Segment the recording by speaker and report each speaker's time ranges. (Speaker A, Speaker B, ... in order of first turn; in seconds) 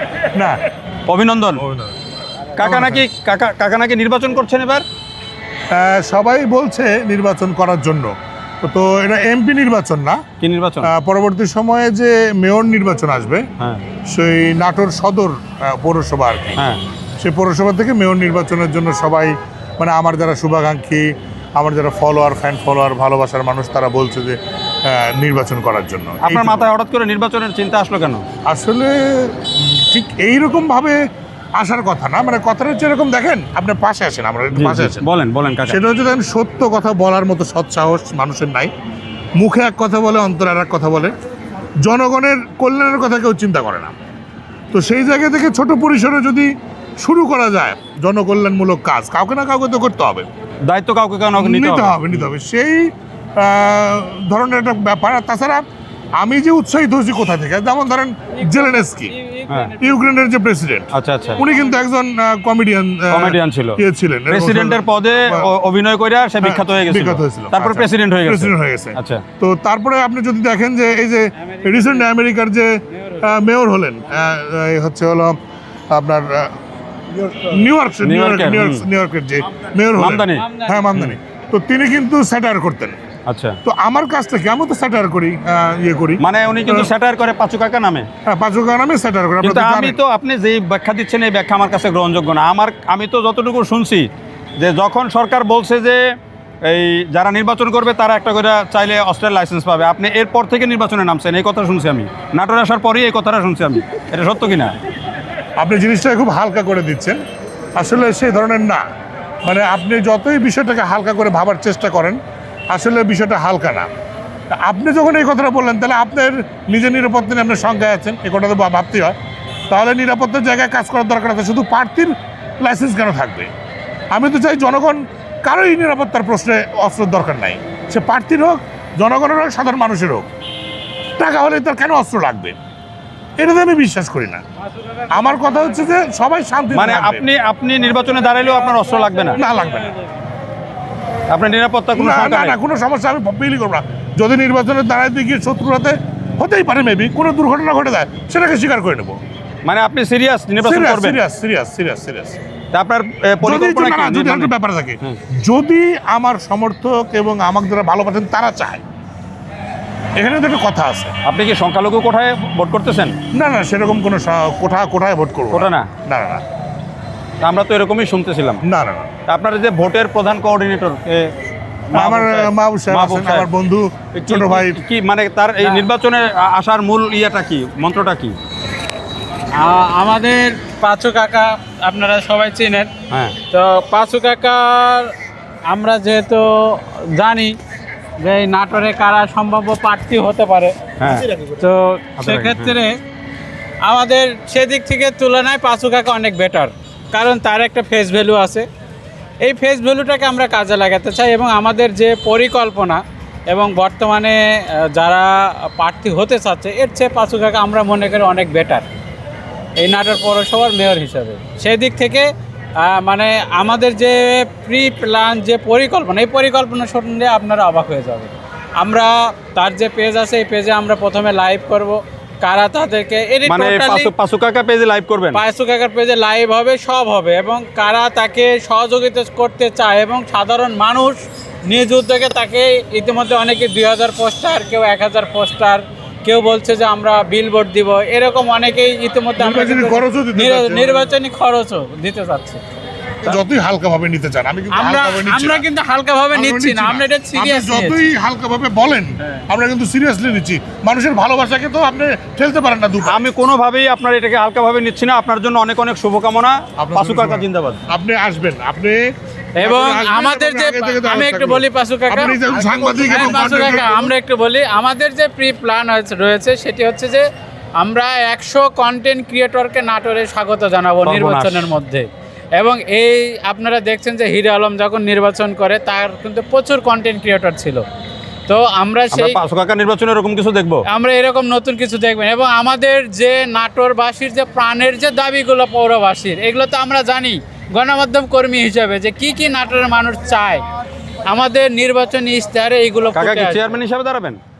Speaker A: 0.3-0.6, 1.6-1.9, 2.6-3.0, 5.7-8.1, 8.6-10.2, 10.8-13.4, 14.1-16.6, 17.2-26.7, 28.5-31.0, 31.6-35.1, 35.7-38.7, 39.4-41.1, 41.8-43.9, 44.7-50.3, 51.4-55.6, 56.2-59.1, 59.8-65.5, 66.4-75.4, 75.9-76.5, 77.2-83.0, 83.6-86.9, 88.2-90.0, 105.6-107.2, 107.8-108.8, 109.4-112.2, 112.7-113.9, 114.5-119.2, 119.7-123.5, 124.1-130.3, 131.2-132.6, 133.4-134.4, 135.1-137.3, 139.3-139.9, 141.9-149.2, 150.6-152.4, 153.4-158.8, 160.2-161.1, 163.3-166.4, 168.6-169.1, 171.9-174.8, 239.4-241.2, 243.2-245.6, 246.3-253.2, 256.8-259.0, 259.6-264.1
Speaker B: 1.1-1.6, 2.5-4.8, 10.4-10.9, 26.2-28.2, 34.5-35.8, 50.6-52.3, 60.9-61.4, 63.1-69.2, 78.0-78.8, 80.0-81.1, 83.3-83.6, 86.2-88.1, 89.4-96.0, 96.6-104.7, 136.7-139.4, 141.3-142.6, 149.6-151.2, 152.7-155.2, 161.2-163.2, 165.5-165.9, 167.4-168.6, 169.3-171.3, 171.9-173.5, 174.1-178.3, 183.1-183.3, 191.0-191.3, 192.2-192.8, 223.4-225.4, 253.0-257.8, 271.0-271.7, 279.1-280.9, 293.1-294.4
Speaker C: 58.4-60.1, 71.4-72.0, 72.9-73.3, 80.3-80.9, 134.6-135.9, 137.9-140.1, 175.6-175.8, 179.5-182.9, 183.5-185.1, 185.7-187.6, 188.2-193.0, 193.8-198.7, 199.4-208.9, 209.8-224.1, 225.3-242.6, 244.7-248.0, 259.6-267.3, 267.8-277.8, 278.5-279.4, 280.9-290.6, 291.2-293.8